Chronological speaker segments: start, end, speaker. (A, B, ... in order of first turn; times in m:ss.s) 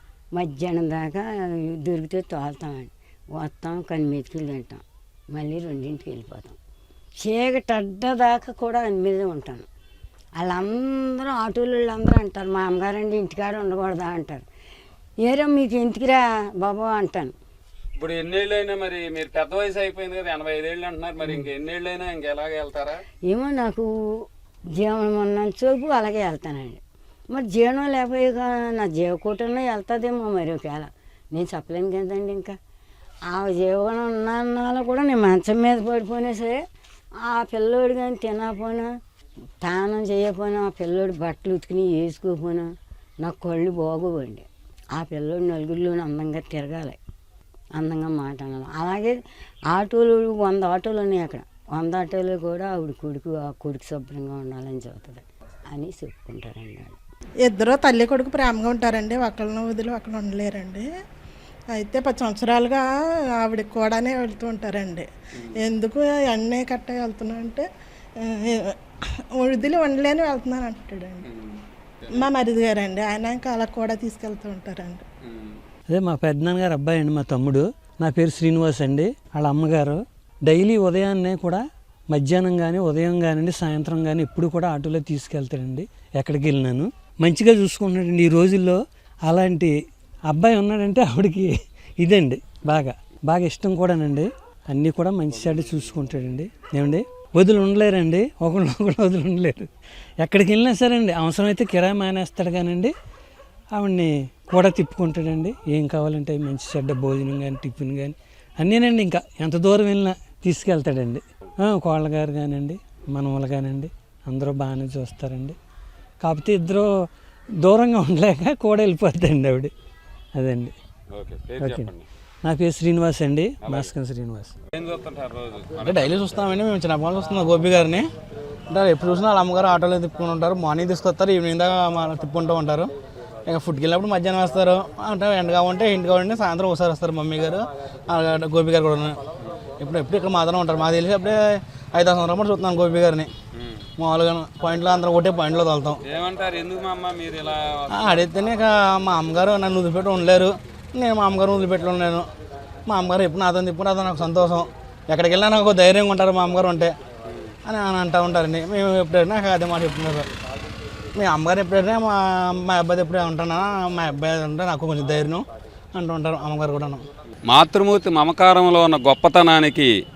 0:00.3-0:06.6 A
0:07.2-0:09.7 A
0:10.4-0:14.4 A
0:15.2-0:17.3 A
0:18.0-0:23.0 B
0:23.3-0:32.6 A
0:33.3-0:36.6 A
0:37.2-0:39.0 A
0:39.6-0:47.0 A
0:47.7-0:49.2 A
0:49.7-0:57.0 A
0:57.4-1:00.9 C
1:01.7-1:05.1 C
1:05.6-1:11.2 C
1:11.2-1:12.3 B
1:12.1-1:15.0 C
1:15.2-1:15.6 B
1:15.9-1:29.7 D
1:30.3-1:39.7 D
1:40.2-1:42.9 D
1:43.7-1:55.6 D
1:56.2-1:56.9 D
1:57.6-1:59.7 D
2:00.3-2:00.7 D
2:01.1-2:02.0 B
2:01.6-2:01.9 D
2:02.4-2:04.5 D
2:03.6-2:03.9 B
2:04.7-2:06.4 B
2:05.8-2:08.1 E
2:08.7-2:12.9 E
2:13.5-2:19.2 E
2:19.8-2:23.3 E
2:23.6-2:23.8 B
2:24.0-2:26.0 E
2:26.0-2:28.2 B
2:27.9-2:32.3 E
2:32.9-2:36.9 E
2:37.3-2:37.5 B
2:37.6-2:40.3 E
2:41.1-2:47.0 E
2:47.5-2:49.9 B